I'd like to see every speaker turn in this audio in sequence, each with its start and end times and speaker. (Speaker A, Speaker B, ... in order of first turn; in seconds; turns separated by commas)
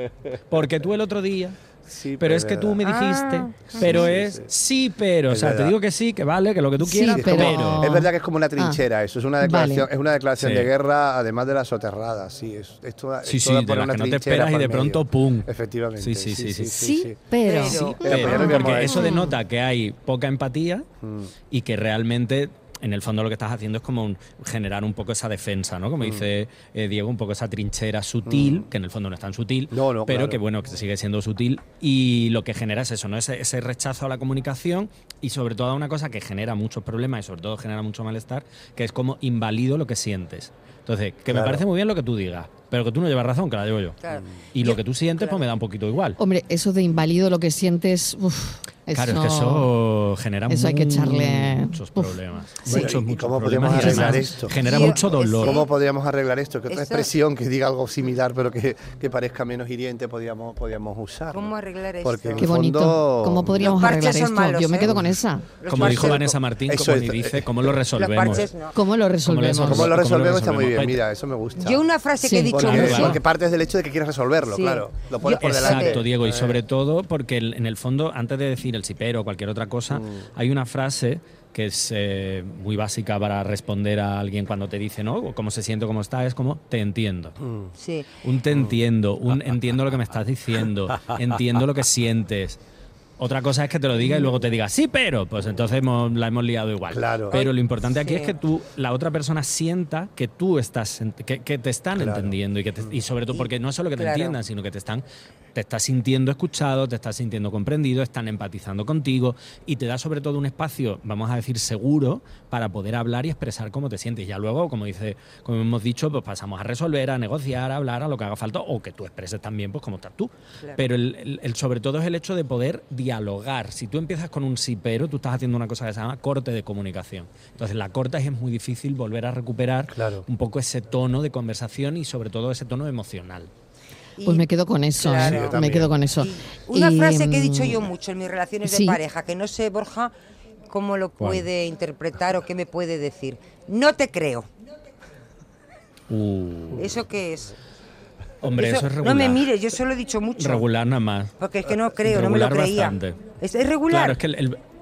Speaker A: 0.5-7.9, Speaker B: 1.9-2.8, Speaker C: 2.8-4.1, Speaker B: 3.7-4.5, Speaker B: 5.3-5.8, Speaker D: 6.8-8.8, Speaker B: 7.0-17.2, Speaker D: 9.4-9.9, Speaker A: 10.4-10.7, Speaker A: 13.2-16.8, Speaker D: 16.8-19.4, Speaker C: 17.4-18.6, Speaker A: 18.0-20.9, Speaker B: 18.0-19.2, Speaker B: 21.0-21.3, Speaker A: 21.5-44.0, Speaker B: 28.3-28.7, Speaker B: 29.7-30.4, Speaker B: 41.3-41.6, Speaker C: 44.0-45.4, Speaker A: 44.5-46.2, Speaker D: 46.2-49.7, Speaker A: 48.9-55.5, Speaker D: 50.5-53.0, Speaker B: 52.7-54.5, Speaker D: 53.7-54.4, Speaker C: 54.5-55.7, Speaker B: 55.4-63.9, Speaker C: 56.7-57.1, Speaker C: 61.3-62.5, Speaker D: 62.4-65.5, Speaker C: 63.6-65.0, Speaker C: 65.6-66.4, Speaker A: 65.7-68.5, Speaker B: 66.7-67.7, Speaker C: 67.9-68.8, Speaker D: 68.7-69.9, Speaker A: 69.2-71.0, Speaker B: 69.7-71.8, Speaker C: 71.6-73.2, Speaker D: 72.2-73.0, Speaker B: 72.5-76.6, Speaker A: 72.6-73.2, Speaker C: 74.5-76.0, Speaker A: 75.3-87.4, Speaker B: 79.9-80.2, Speaker B: 87.4-87.7, Speaker C: 87.8-88.1, Speaker A: 88.2-92.6, Speaker A: 93.2-105.0, Speaker C: 94.0-94.3, Speaker B: 96.9-97.4, Speaker C: 97.3-98.3, Speaker B: 102.0-102.9, Speaker C: 103.3-104.4, Speaker A: 105.5-133.5, Speaker B: 129.9-130.2, Speaker C: 134.2-135.6, Speaker D: 134.2-137.8, Speaker B: 135.2-135.9, Speaker C: 136.2-140.1, Speaker D: 138.6-139.0, Speaker C: 140.7-144.5, Speaker A: 141.2-141.5, Speaker A: 146.1-147.0, Speaker C: 146.7-147.5, Speaker A: 148.4-149.5, Speaker C: 148.5-150.7, Speaker A: 150.4-151.3, Speaker C: 151.4-154.2, Speaker A: 152.0-153.3, Speaker A: 153.9-154.6